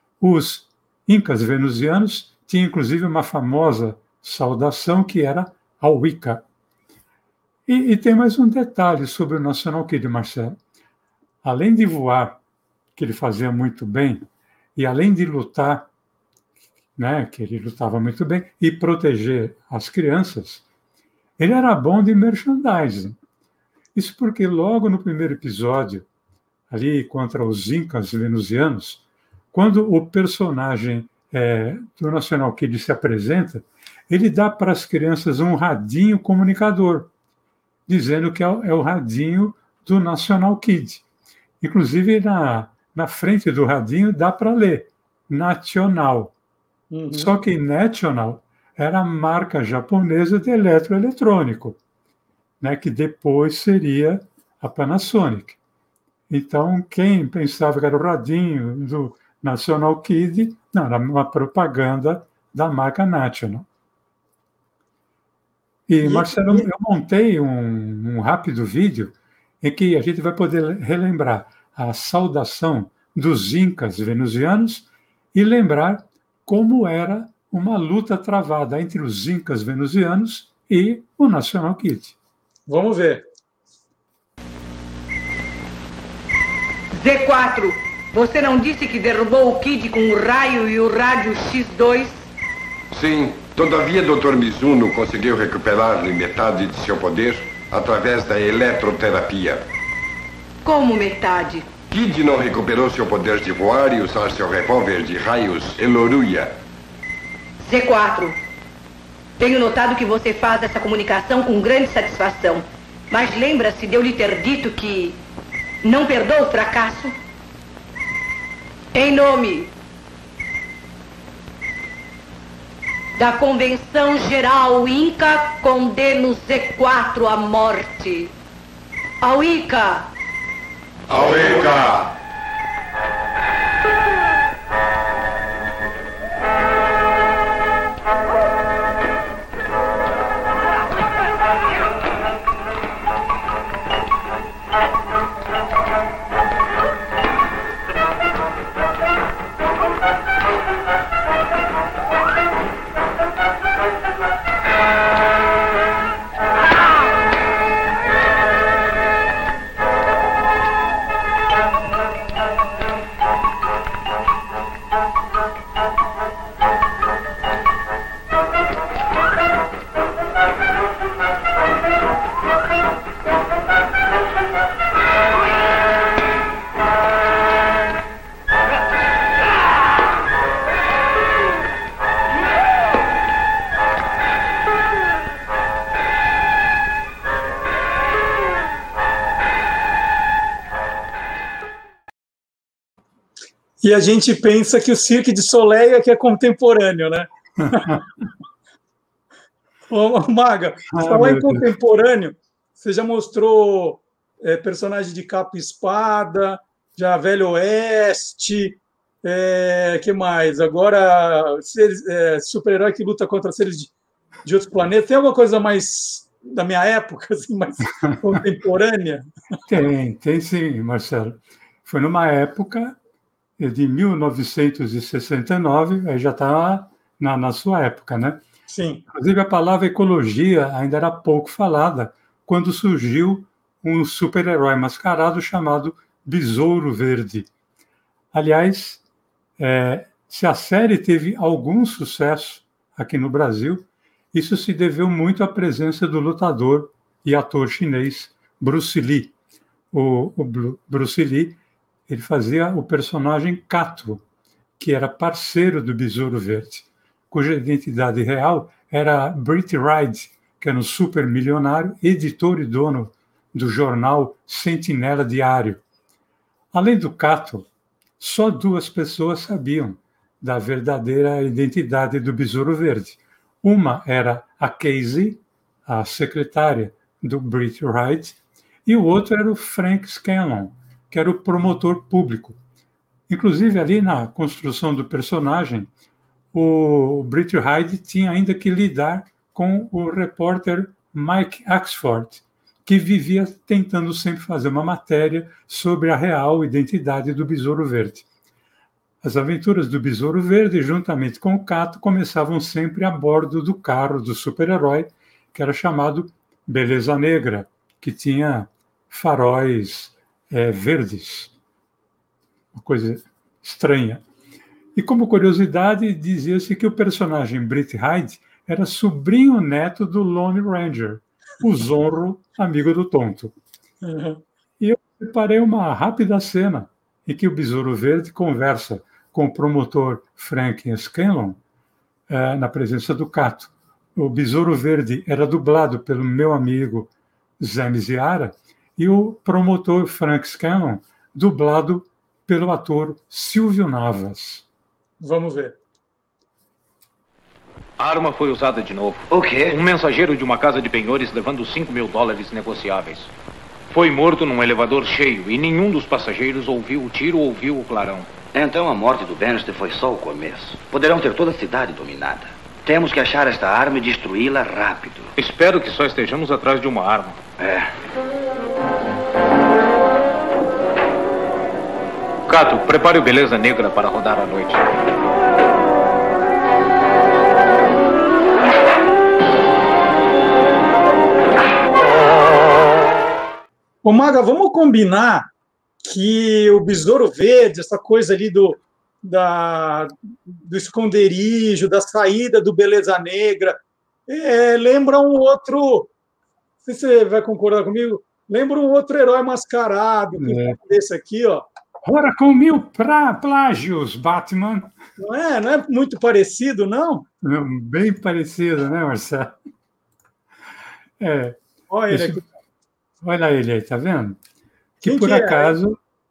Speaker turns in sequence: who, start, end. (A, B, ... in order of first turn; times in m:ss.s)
0:00.2-0:06.4 A
0:07.7-0:10.6 A
0:11.4-0:12.4 A
0:13.0-0:14.2 A
0:14.8-0:15.9 A
0:17.0-0:20.6 A
0:21.4-0:23.2 A
0:24.0-0:26.1 A
0:26.7-0:37.1 A
0:37.9-0:41.0 A
0:41.6-0:46.3 A
0:46.9-0:47.3 B
0:47.1-0:51.8 A
0:52.6-0:55.6 A
0:56.3-1:03.7 A
1:05.9-1:22.2 A
1:06.0-1:06.7 B
1:22.7-1:23.3 B
1:26.9-1:32.3 C
1:32.9-1:39.6 D
1:40.6-1:41.7 C
1:41.9-1:46.5 D
1:47.6-1:48.4 C
1:49.4-1:55.2 C
1:55.8-1:57.1 C
1:58.9-1:59.7 C
2:03.2-2:08.3 C
2:09.2-2:10.1 C
2:11.1-2:12.1 D
3:13.8-3:18.0 B
3:17.6-3:18.0 A
3:19.9-3:33.9 B
3:20.9-3:21.7 A
3:34.4-3:39.3 B
3:38.0-3:38.4 A
3:39.7-3:43.0 A
3:43.6-3:48.4 A
3:48.7-3:49.0 B
3:49.1-3:57.5 A
3:58.3-3:59.0 A
3:59.6-4:09.3 A
4:09.9-4:14.2 A
4:14.8-4:25.8 A
4:26.7-4:27.7 A
4:28.2-4:42.6 A
4:43.3-4:45.9 A
4:46.5-4:58.2 A
4:59.2-5:11.5 A
5:12.7-5:14.2 A
5:15.0-5:23.5 A
5:24.0-5:24.4 B
5:24.8-5:31.6 A
5:32.3-5:44.6 A
5:45.2-5:45.8 B
5:48.0-5:53.3 E
5:49.3-5:49.7 F
5:53.9-5:58.4 E
5:58.5-6:05.3 F
6:05.4-6:07.4 E
6:07.6-6:07.9 F
6:12.5-6:14.8 E
6:24.0-6:25.5 B
6:26.0-6:36.1 B
6:36.8-6:41.6 B
6:40.4-6:40.8 A
6:42.0-6:44.9 A
6:45.2-6:47.3 B
6:47.4-6:49.6 A
6:51.2-6:51.6 A
6:51.9-6:52.4 B
6:52.1-6:52.4 A
6:53.2-6:54.4 A
6:55.0-6:55.8 B
6:55.0-6:56.0 A